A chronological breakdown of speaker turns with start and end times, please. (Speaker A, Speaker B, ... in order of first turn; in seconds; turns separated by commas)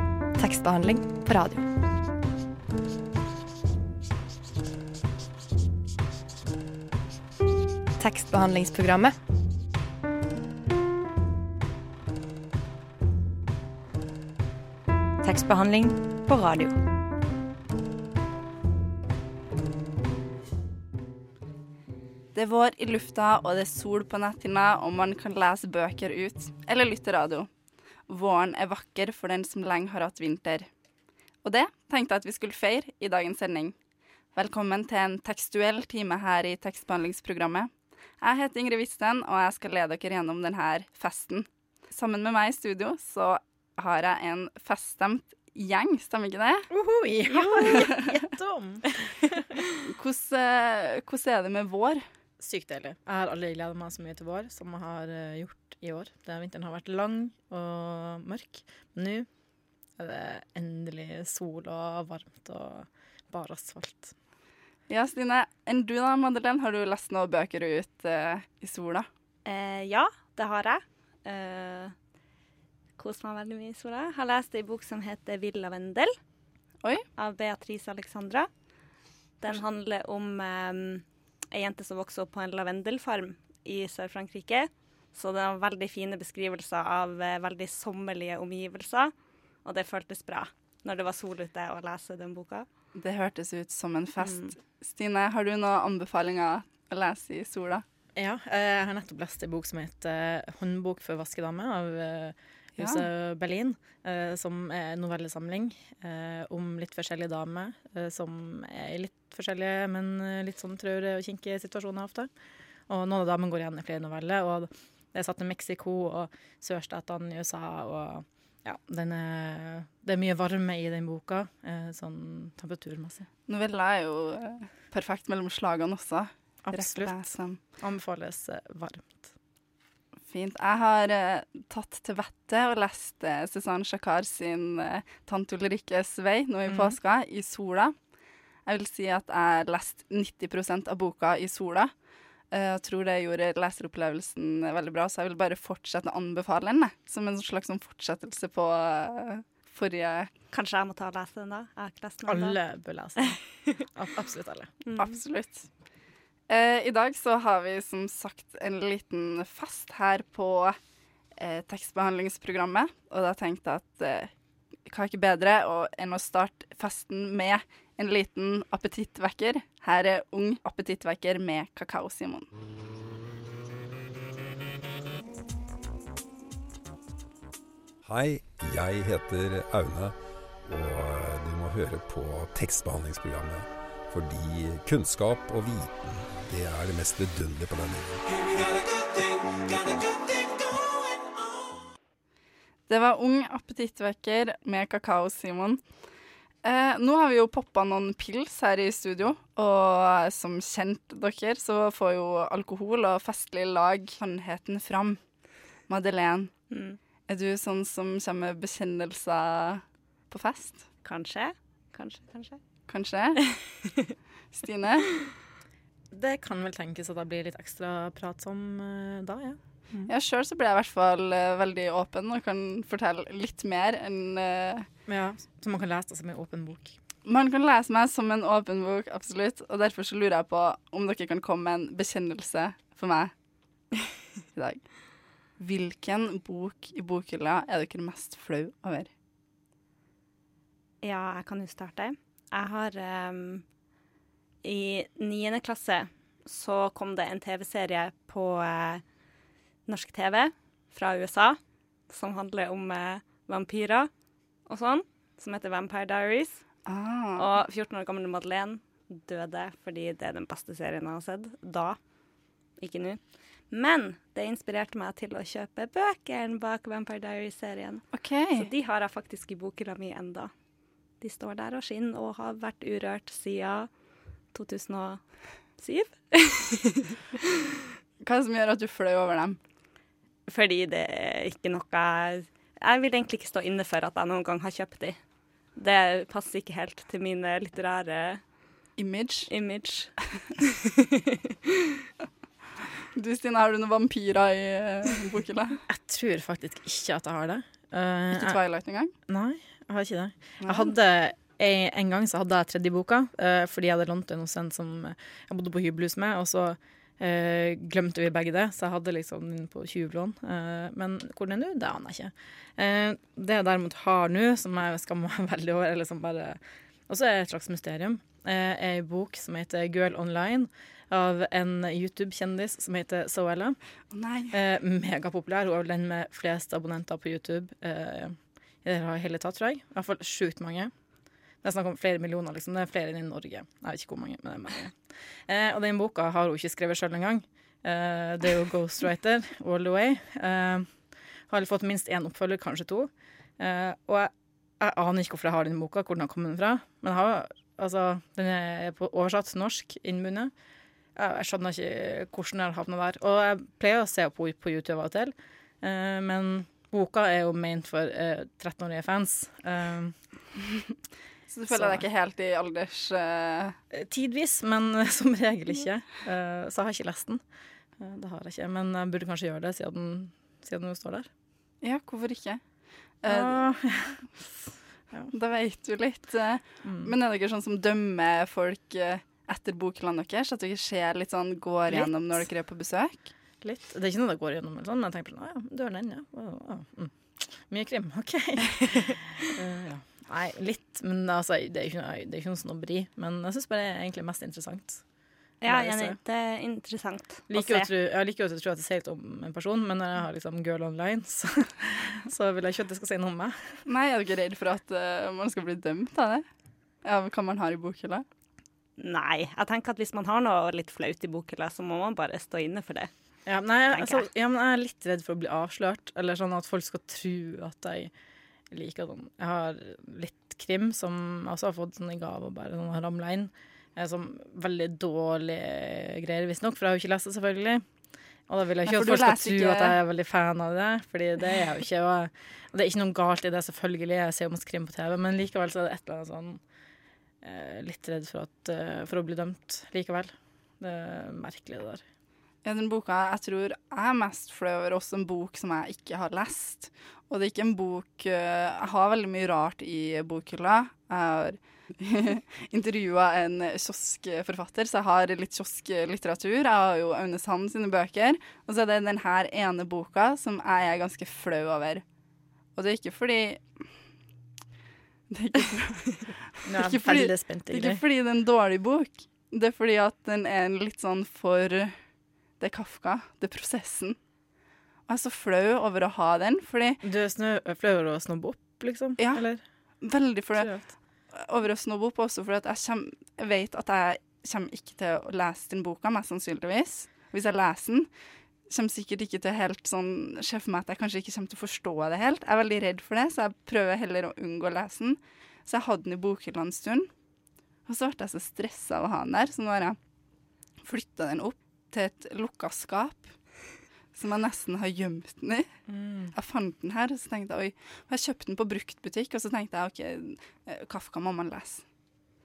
Speaker A: 0.3-1.7, Speaker A: 8.0-9.2, Speaker A: 15.2-16.8, Speaker B: 22.3-27.5, Speaker B: 28.1-30.7, Speaker B: 31.4-33.7, Speaker B: 34.3-37.7, Speaker B: 38.2-46.7, Speaker C: 46.7-49.4, Speaker B: 49.9-52.0, Speaker C: 52.4-59.3, Speaker C: 60.0-64.1, Speaker B: 64.9-69.1, Speaker D: 69.4-71.9, Speaker D: 73.0-76.1, Speaker D: 77.2-78.5, Speaker D: 79.4-92.7, Speaker B: 93.0-97.8, Speaker D: 94.2-94.5, Speaker C: 98.2-112.3, Speaker B: 102.8-103.1, Speaker C: 112.9-123.3, Speaker B: 123.5-127.6, Speaker C: 126.7-129.3, Speaker B: 130.3-137.9, Speaker C: 136.7-136.9, Speaker B: 138.7-141.9, Speaker B: 142.5-150.3, Speaker D: 150.5-152.6, Speaker C: 152.2-154.7, Speaker D: 154.8-155.1, Speaker B: 155.0-155.7, Speaker B: 156.5-160.8, Speaker B: 161.4-164.3, Speaker B: 164.8-172.5, Speaker E: 178.0-188.2, Speaker B: 192.9-195.8, Speaker B: 196.6-205.2, Speaker B: 205.9-206.5, Speaker D: 206.7-207.0, Speaker B: 207.3-210.8, Speaker D: 211.0-212.6, Speaker B: 212.9-213.4, Speaker D: 213.5-214.1, Speaker B: 214.5-215.2, Speaker C: 216.1-220.1, Speaker B: 220.1-224.9, Speaker C: 225.1-226.9, Speaker B: 227.2-233.3, Speaker B: 234.5-234.9, Speaker B: 235.6-239.1, Speaker D: 241.0-243.6, Speaker D: 244.6-249.0, Speaker D: 249.9-254.1, Speaker D: 254.7-256.6, Speaker B: 256.9-257.4, Speaker D: 257.4-262.0, Speaker D: 262.8-270.5, Speaker B: 268.1-268.7, Speaker D: 271.2-273.9, Speaker D: 274.5-277.2, Speaker B: 278.2-279.6, Speaker D: 280.5-285.2, Speaker D: 285.8-288.4, Speaker B: 289.0-289.5, Speaker D: 289.5-291.6, Speaker B: 293.1-295.8, Speaker C: 295.9-298.6, Speaker B: 298.3-299.1, Speaker C: 299.3-323.8, Speaker B: 300.6-300.9, Speaker B: 324.1-324.6, Speaker C: 324.5-330.9, Speaker C: 331.6-334.9, Speaker C: 335.5-340.9, Speaker C: 341.5-350.5, Speaker C: 351.1-360.1, Speaker B: 361.5-363.8, Speaker C: 361.7-362.0, Speaker C: 363.9-367.4, Speaker C: 368.0-371.3, Speaker B: 371.8-372.6, Speaker B: 373.2-373.7, Speaker C: 373.3-374.5, Speaker B: 375.3-383.2, Speaker C: 376.8-377.1, Speaker C: 381.9-382.4, Speaker C: 383.6-395.0, Speaker D: 395.6-397.9, Speaker C: 395.6-396.2, Speaker C: 397.5-403.7, Speaker B: 403.9-406.4, Speaker B: 407.0-408.2, Speaker D: 409.0-413.1, Speaker C: 413.5-418.1, Speaker D: 413.9-414.3, Speaker C: 418.7-427.8, Speaker C: 428.5-436.6, Speaker B: 428.9-430.0, Speaker C: 437.4-442.0, Speaker B: 442.6-462.0, Speaker B: 462.8-463.8, Speaker B: 465.3-471.9, Speaker C: 466.6-468.0, Speaker B: 472.6-474.2, Speaker B: 475.1-477.0, Speaker C: 477.0-479.6, Speaker B: 479.2-479.4, Speaker B: 480.0-480.7, Speaker C: 480.6-480.9, Speaker B: 481.3-488.1, Speaker B: 488.7-497.1, Speaker B: 497.9-500.0, Speaker B: 500.8-503.3, Speaker B: 504.1-505.8, Speaker C: 505.9-506.3, Speaker B: 506.3-511.8